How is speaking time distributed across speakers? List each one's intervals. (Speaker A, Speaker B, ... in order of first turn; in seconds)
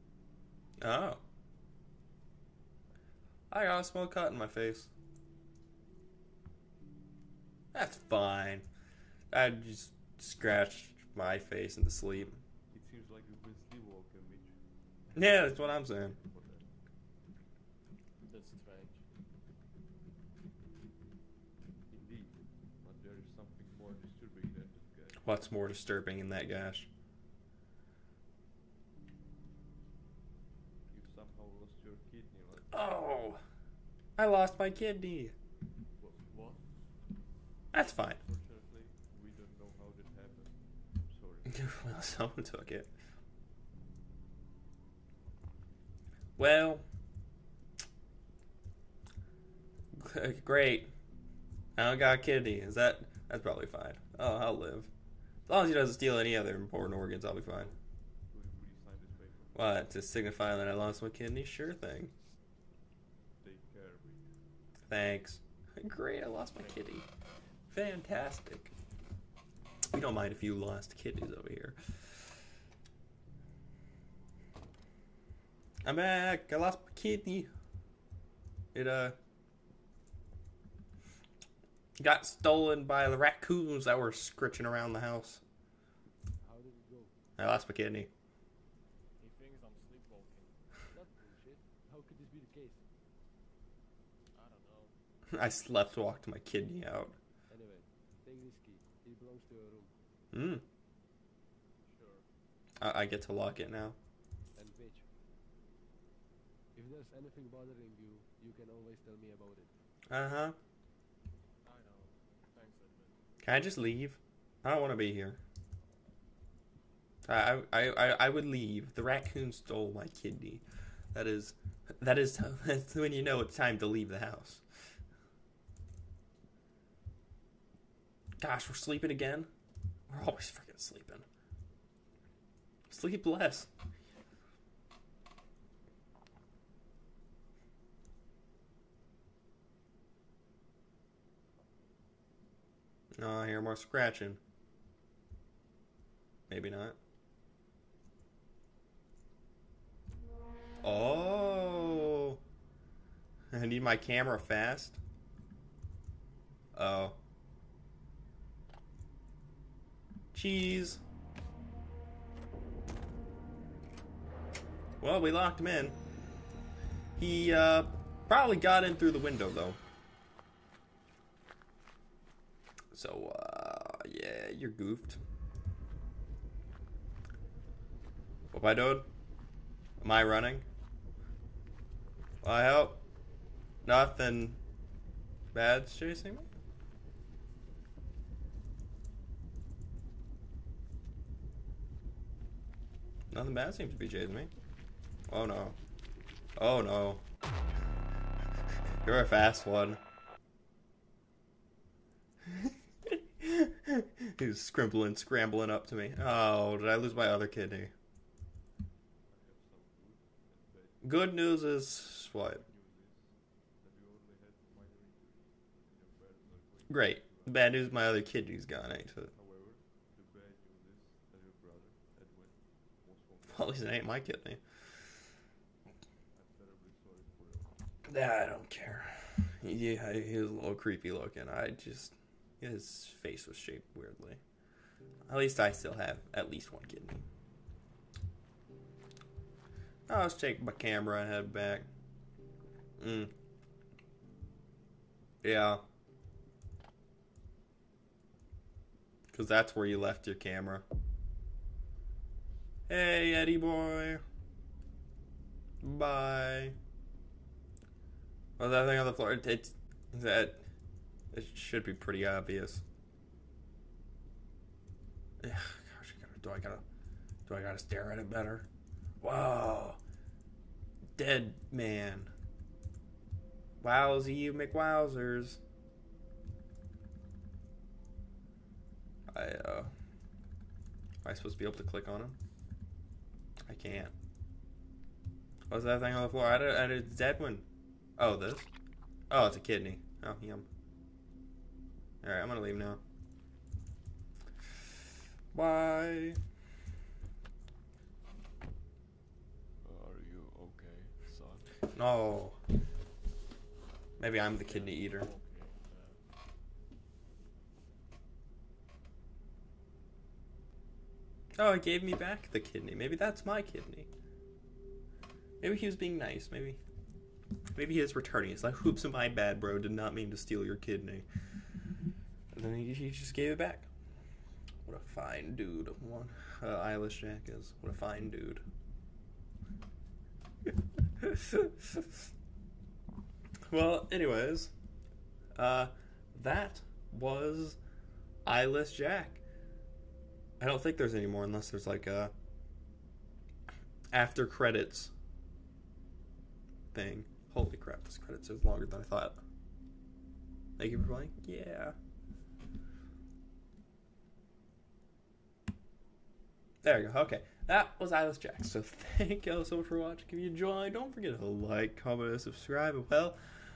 Speaker A: 0.8-1.2, 3.5-4.9, 7.7-8.7, 9.3-12.4, 15.1-16.2, 25.2-26.9, 32.7-33.4, 34.2-35.3, 37.7-38.2, 41.5-42.9, 46.4-46.8, 49.9-50.9, 51.8-54.9, 55.5-57.7, 59.5-62.1, 64.9-67.1, 67.7-68.7, 69.9-72.2, 75.8-77.5, 78.7-79.2, 82.0-85.4, 87.4-88.1, 95.3-97.2, 100.3-100.7, 102.8-104.0, 110.1-110.6, 113.4-115.4, 117.2-124.6, 128.4-129.5, 130.1-131.2, 132.9-133.7, 143.2-144.4, 146.5-147.0, 150.8-152.4, 153.5-155.0, 156.7-157.2, 160.3-161.0, 165.0-166.0, 167.2-169.8, 172.9-175.2, 178.5-179.1, 180.0-180.7, 182.4-183.0, 183.8-184.6, 185.5-186.5, 193.3-194.5, 195.3-195.8, 196.6-197.2, 199.0-200.0, 202.5-207.9, 211.0-212.6, 216.9-219.3, 223.5-224.6, 228.1-234.4, 235.3-237.3, 240.1-241.9, 243.0-243.3, 245.4-245.8, 249.3-250.8, 252.9-254.2, 255.8-256.8, 258.6-260.6, 261.3-262.8, 265.4-266.8, 267.5-268.7, 269.2-270.0, 271.2-272.3, 273.8-275.6, 279.3-279.9, 281.2-282.4, 283.7-284.1, 285.7-287.7, 288.2-288.7, 289.3-290.7, 292.2-293.0, 295.5-296.4, 301.8-302.6, 304.2-305.3, 311.6-314.1, 315.6-316.8, 317.7-321.3, 322.5-323.9, 324.8-328.6, 331.2-332.0, 333.7-334.7, 335.6-337.8, 338.4-339.4, 340.6-342.3, 344.1-345.1, 346.9-349.4, 350.8-351.9, 356.8-363.4
Speaker B: 12.7-14.5, 15.1-16.7, 21.9-25.2, 30.9-33.1, 36.0-36.3, 37.8-41.7, 57.5-57.8, 58.3-59.9, 63.4-64.3, 209.3-211.2, 212.3-218.2, 219.3-224.0, 226.3-227.8, 299.8-301.7
Speaker C: 18.2-19.0, 36.2-36.6, 89.2-90.5, 94.3-94.9, 101.8-102.3, 111.6-113.2, 304.5-306.2
Speaker D: 86.4-87.1, 90.9-92.8, 97.5-99.9, 104.5-105.1, 106.7-109.7